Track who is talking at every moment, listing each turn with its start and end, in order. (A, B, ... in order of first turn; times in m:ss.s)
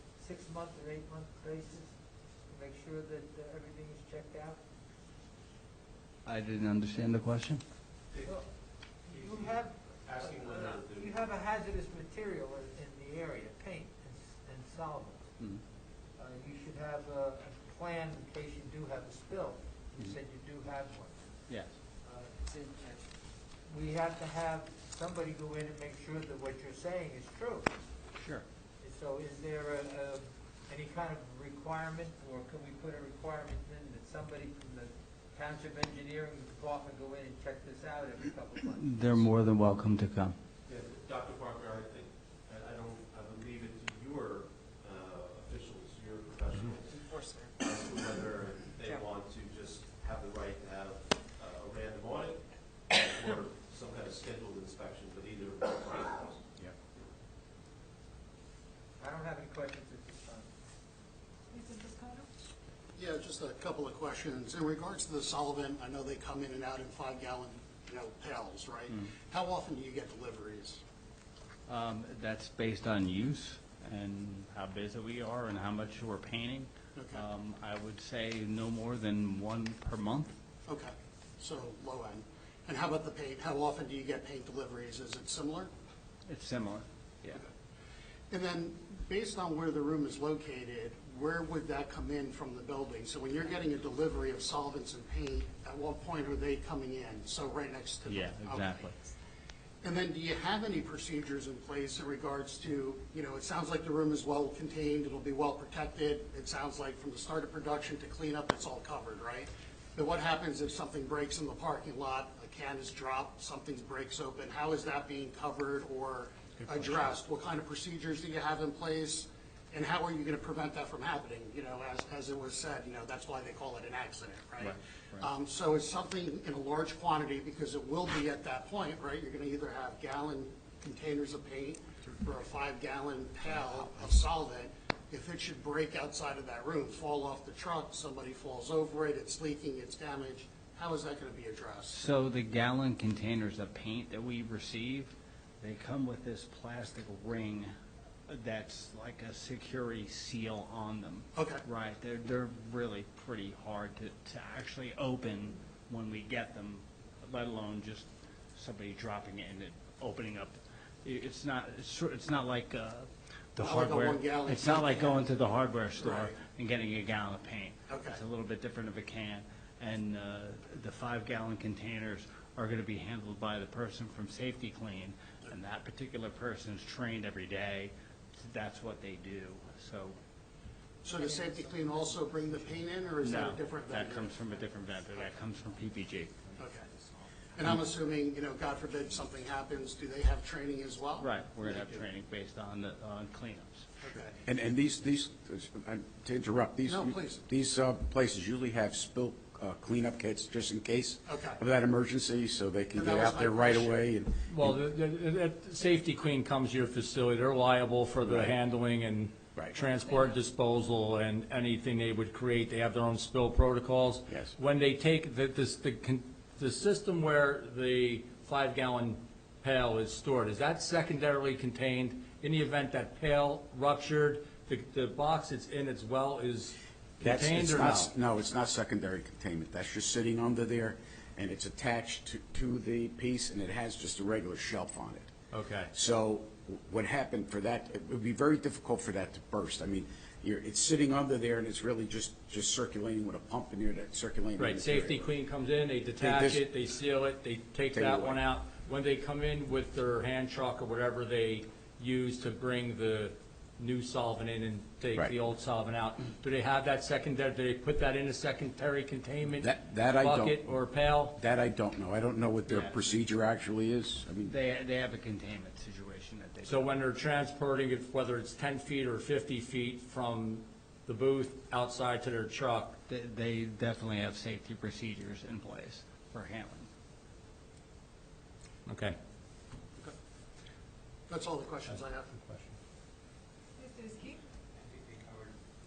0:00.2-0:04.6 A
0:06.3-0:07.6 B
0:08.1-0:08.4 C
0:09.1-0:11.2 C
0:09.1-0:15.3 A
0:16.2-0:21.2 A
0:22.0-0:23.0 A
0:23.7-0:27.7 A
0:28.2-0:28.4 B
0:28.8-0:39.3 A
0:38.7-0:40.4 B
0:40.7-0:56.4 C
0:47.0-0:47.5 D
0:59.0-1:00.5 A
1:01.5-1:02.3 D
1:03.0-1:10.8 E
1:11.7-1:20.4 B
1:17.0-1:17.2 E
1:20.7-1:25.7 E
1:26.3-1:27.4 B
1:28.3-1:38.9 E
1:38.0-1:39.0 B
1:39.8-2:22.0 E
1:56.6-1:57.1 F
2:04.6-2:05.3 B
2:21.9-2:27.7 B
2:28.3-3:00.2 B
2:31.4-2:31.6 E
2:43.6-2:45.2 E
2:45.9-2:46.4 E
2:47.9-2:48.2 E
3:01.0-3:04.4 E
3:01.2-3:03.4 A
3:03.2-3:06.5 B
3:06.6-3:06.9 E
3:07.6-3:11.3 E
3:11.2-3:13.9 B
3:11.6-3:12.0 C
3:14.0-3:14.3 E
3:14.4-3:24.8 G
3:16.9-3:17.4 E
3:21.3-3:21.6 E
3:22.9-3:24.0 E
3:24.5-3:48.1 F
3:28.2-3:28.6 G
3:47.2-3:55.3 G
3:55.5-3:55.9 F
3:55.9-4:05.3 G
4:04.6-4:21.4 F
4:06.2-4:06.6 G
4:07.9-4:08.4 G
4:19.6-4:20.7 G
4:21.3-4:24.6 G
4:24.4-4:27.0 B
4:26.7-4:33.0 F
4:33.1-4:36.9 B
4:38.9-4:39.2 F
4:41.3-4:42.3 E
4:41.9-4:42.8 F
4:43.8-4:44.4 D
4:44.8-4:45.5 A